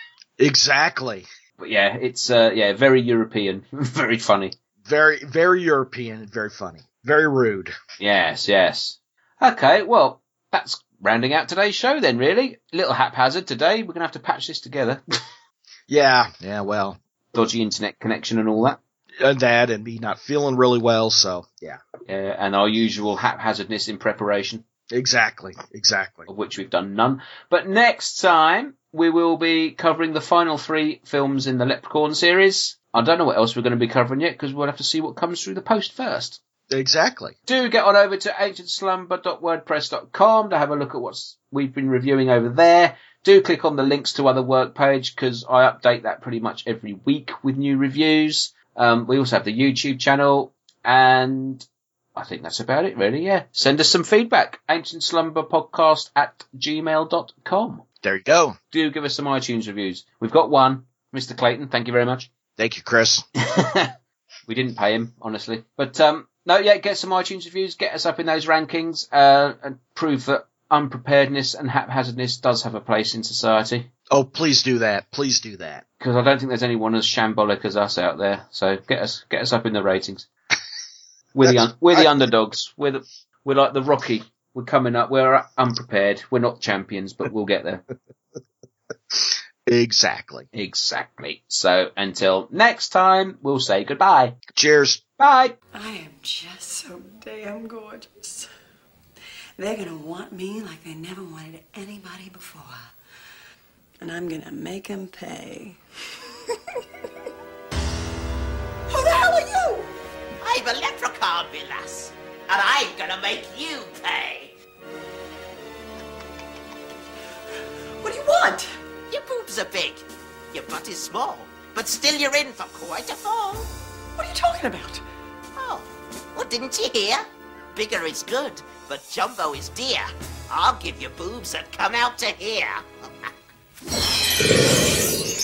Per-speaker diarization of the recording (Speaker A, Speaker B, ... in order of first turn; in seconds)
Speaker A: 0.4-1.3, 4.8-7.7, 15.9-17.0, 19.2-21.8, 24.9-26.3, 36.7-37.4, 58.0-58.6, 62.6-63.2, 74.1-75.8, 81.4-82.0, 89.1-90.5, 94.5-95.0
Speaker B: 1.6-4.5, 8.0-15.0, 17.3-18.8, 22.1-24.6, 26.3-36.4, 37.5-57.8, 58.7-62.3, 63.5-63.9, 64.5-73.9, 76.0-80.3, 81.3-87.8, 90.5-94.4, 95.2-95.5
Speaker C: 95.7-98.5, 99.6-102.8, 104.0-105.8, 108.9-109.9, 118.0-118.7, 124.2-125.0
Speaker D: 110.4-114.5, 119.1-123.7, 125.5-132.8